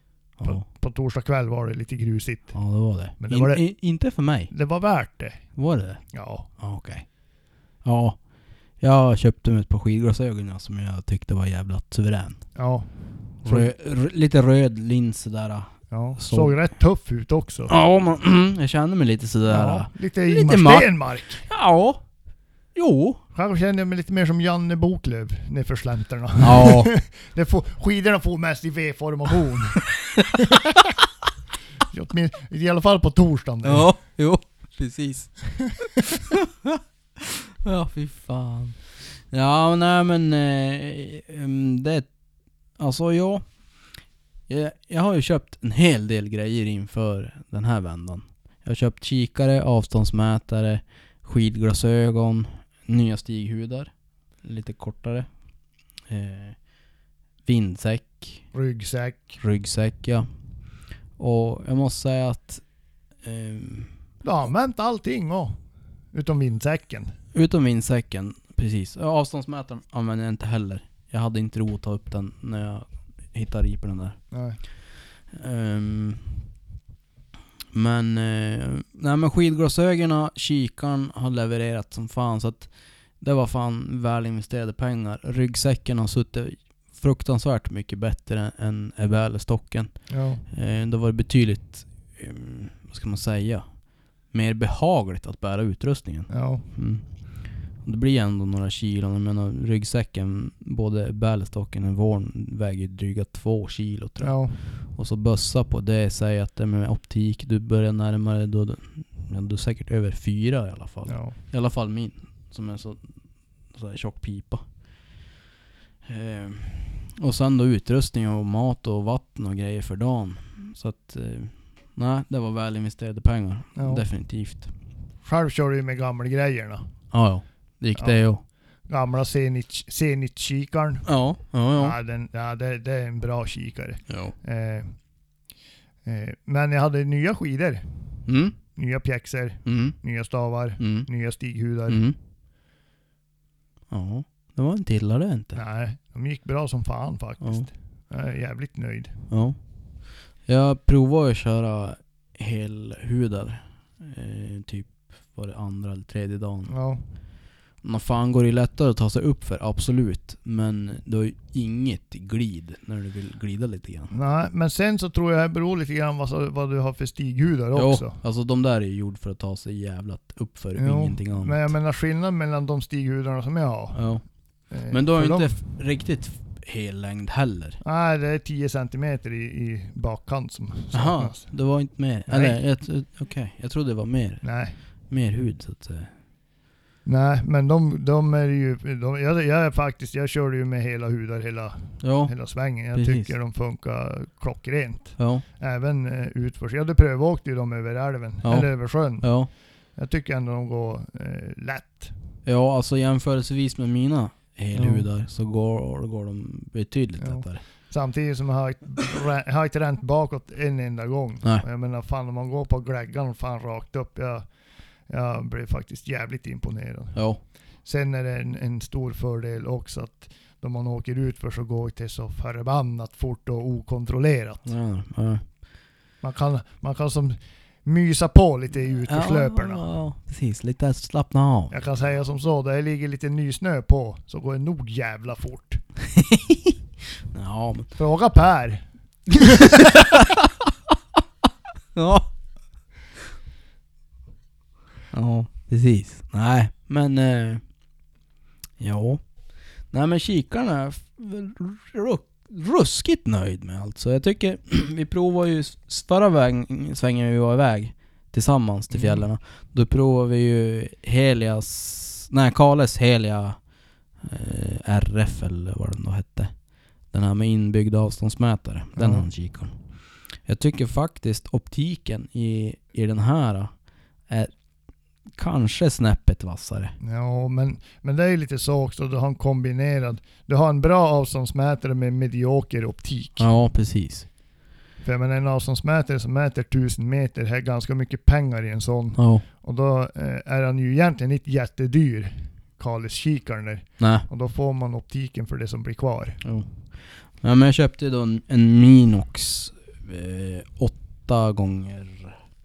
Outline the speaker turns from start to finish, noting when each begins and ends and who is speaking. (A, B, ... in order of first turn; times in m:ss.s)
0:00.4-0:00.6 A
0:00.4-0:02.6 B
0:02.5-0:04.5 A
0:03.2-0:03.6 B
0:04.5-0:05.4 B
0:05.6-0:06.0 A
0:06.1-0:06.5 B
0:06.6-0:07.0 A
0:07.8-0:08.2 A
0:08.8-0:12.4 A
0:12.6-0:12.9 B
0:13.4-0:13.7 B
0:13.4-0:16.5 A
0:15.9-0:17.7 B
0:17.7-0:20.9 A
0:19.5-0:21.4 B
0:21.4-0:22.0 A
0:22.7-0:23.2 A
0:23.3-0:29.9 B
0:26.4-0:26.9 A
0:31.9-0:33.9 B
0:33.6-0:42.1 A
0:42.8-0:43.4 A
0:44.5-0:53.9 A
0:54.4-0:55.3 A
0:56.1-0:56.6 A
0:57.4-0:58.4 A
0:58.5-0:59.4 B
0:59.4-1:00.3 A
1:01.2-1:02.6 A
1:03.2-1:03.9 A
1:04.2-1:05.6 B
1:06.1-1:07.2 B
1:07.3-1:14.2 A
1:14.3-1:14.6 B
1:15.3-1:16.3 A
1:17.7-1:29.9 A
1:30.1-1:30.4 B
1:30.5-1:33.6 A
1:34.3-1:37.0 A
1:36.3-1:36.6 B
1:37.8-1:44.4 A
1:44.2-1:44.6 B
1:44.9-1:53.1 A
1:51.1-1:51.3 B
1:53.7-1:54.6 A
1:56.0-2:04.7 A
2:03.8-2:04.0 B
2:05.2-2:06.9 B
2:07.1-2:08.4 A
2:08.0-2:08.2 B
2:08.9-2:11.0 B
2:11.0-2:12.0 A
2:11.8-2:14.9 B
2:14.1-2:14.3 A
2:16.0-2:18.2 B
2:18.3-2:18.6 A
2:18.7-2:22.0 B
2:19.6-2:20.0 A
2:20.8-2:21.1 A
2:21.9-2:22.2 A
2:23.9-2:25.6 A
2:25.6-2:29.2 B
2:27.4-2:27.7 A
2:29.3-2:29.6 A
2:30.5-2:36.7 A
2:36.7-2:37.0 B
2:37.8-2:44.1 A
2:44.1-2:48.2 B
2:47.7-2:51.7 A
2:50.8-2:54.0 B
2:53.9-2:54.2 A
2:54.7-2:55.6 B
2:54.9-2:57.8 A
2:57.8-3:01.5 B
3:00.9-3:04.4 A
3:02.3-3:02.6 B
3:04.4-3:04.7 B
3:05.1-3:06.1 A
3:07.0-3:19.3 B
3:12.0-3:12.3 A
3:12.9-3:13.3 A
3:15.2-3:15.4 A
3:18.4-3:19.5 A
3:20.0-3:22.1 B
3:22.4-3:27.6 A
3:24.7-3:25.0 B
3:27.2-3:34.5 B
3:35.1-3:37.2 B
3:37.1-3:37.4 A
3:37.8-3:44.7 B
3:44.6-3:45.4 A
3:46.2-3:49.8 B
3:49.0-3:51.7 A
3:51.7-3:55.8 B
3:56.1-3:56.7 A
3:57.3-3:57.9 A
3:58.0-3:59.8 B
3:59.6-4:00.4 A
4:01.9-4:02.3 A
4:05.1-4:07.6 A
4:08.8-4:09.2 A
4:09.9-4:23.6 A
4:18.9-4:19.2 B
4:24.2-4:26.5 A
4:27.1-4:29.7 A
4:29.0-4:29.2 B
4:30.4-4:33.7 A
4:35.4-4:36.9 A
4:37.0-4:43.5 B
4:43.4-4:44.2 A
4:45.0-4:56.4 B
4:49.2-4:49.4 A
4:54.0-4:54.2 A
4:56.4-5:02.4 A